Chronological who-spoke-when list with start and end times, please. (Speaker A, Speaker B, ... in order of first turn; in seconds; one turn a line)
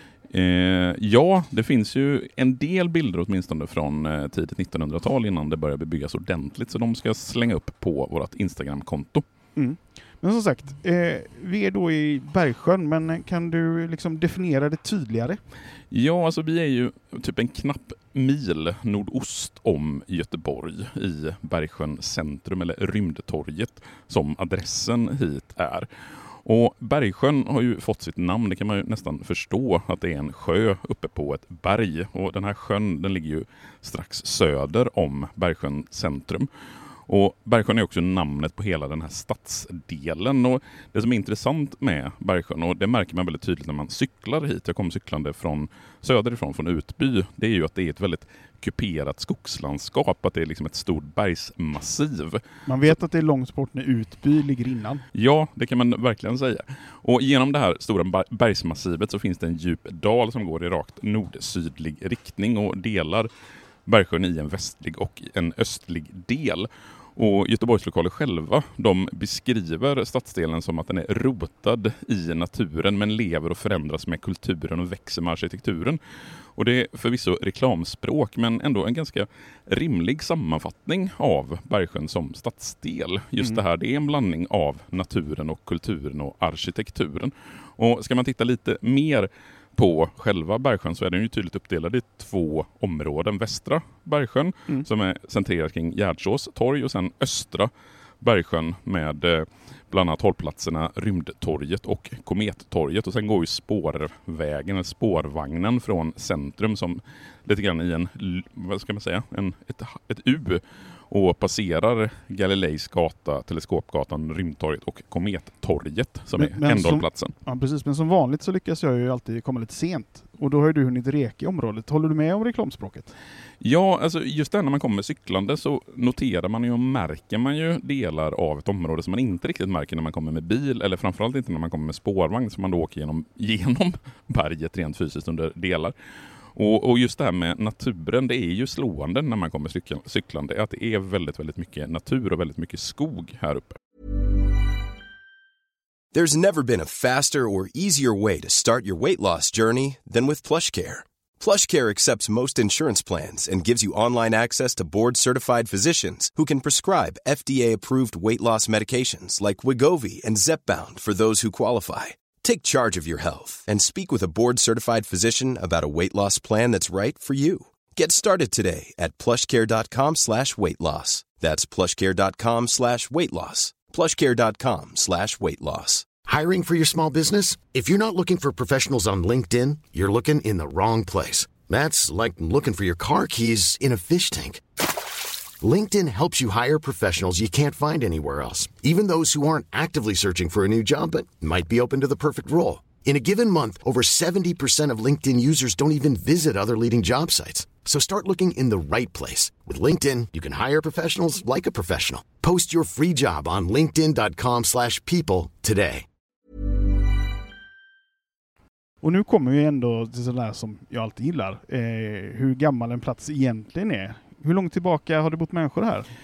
Speaker A: 0.3-9.2
Speaker B: 9.6-15.4
Speaker A: 15.9-25.9
Speaker A: 26.4-36.5
Speaker A: 37.1-52.9
Speaker B: 52.6-55.0
Speaker A: 55.1-63.3
Speaker A: 63.9-76.0
Speaker A: 76.5-97.7
Speaker A: 98.2-117.3
Speaker B: 116.4-123.1
Speaker A: 123.6-135.9
Speaker A: 136.5-143.8
Speaker C: 146.1-176.1
Speaker D: 176.2-184.6
Speaker D: 185.6-206.1
Speaker B: 209.0-216.1